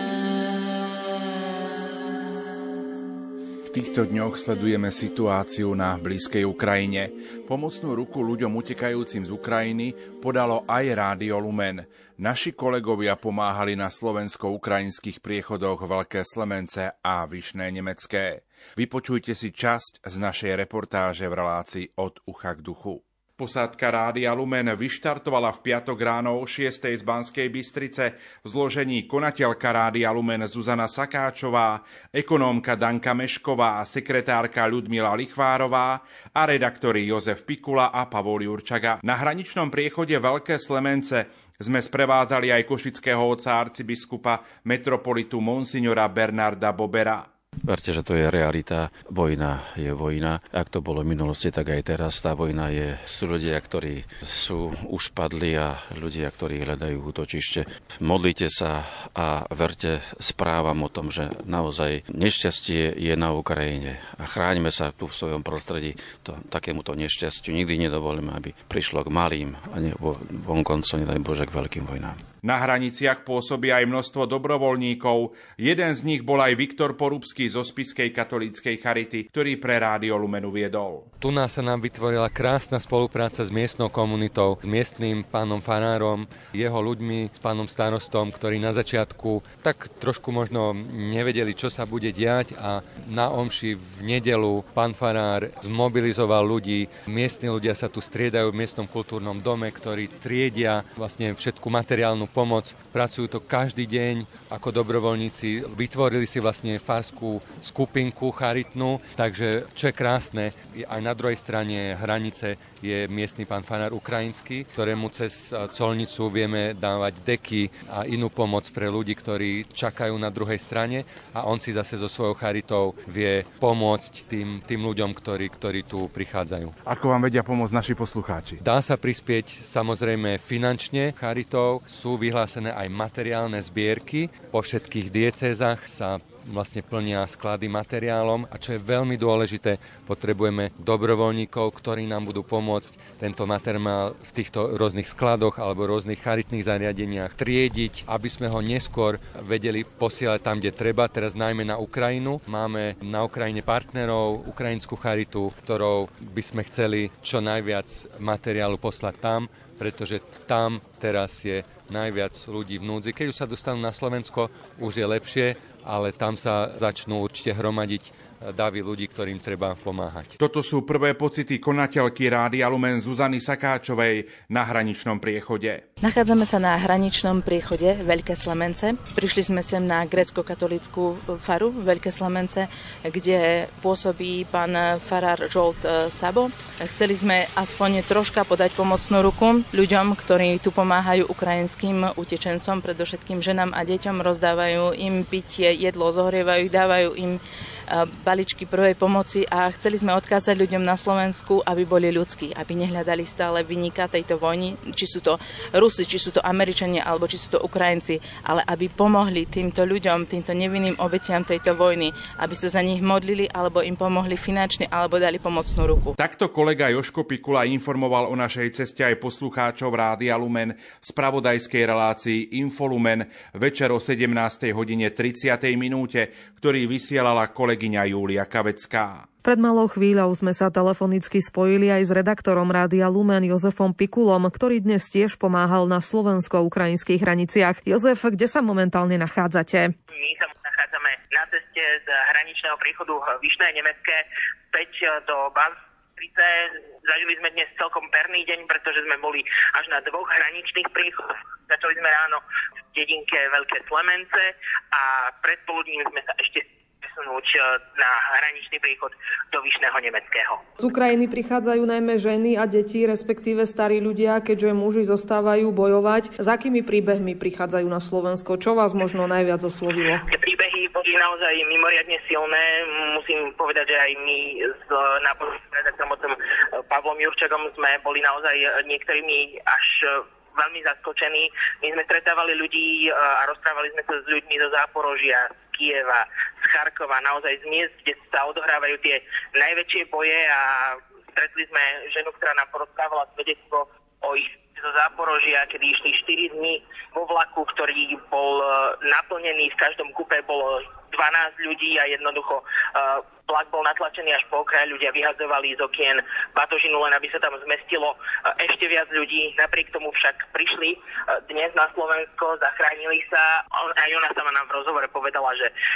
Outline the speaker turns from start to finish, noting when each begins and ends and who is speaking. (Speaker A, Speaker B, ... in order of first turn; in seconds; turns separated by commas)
Speaker A: 3.6-47.3, Speaker B: 47.6-72.2, Speaker A: 72.4-81.1, Speaker C: 81.2-126.7, Speaker A: 126.8-128.6, Speaker C: 128.6-170.3, Speaker A: 170.4-175.8, Speaker D: 176.0-216.1, Speaker A: 216.2-229.3, Speaker E: 229.4-239.9, Speaker F: 240.1-244.2, Speaker F: 244.7-252.4, Speaker F: 252.9-260.6, Speaker E: 260.8-270.2, Speaker F: 270.3-315.7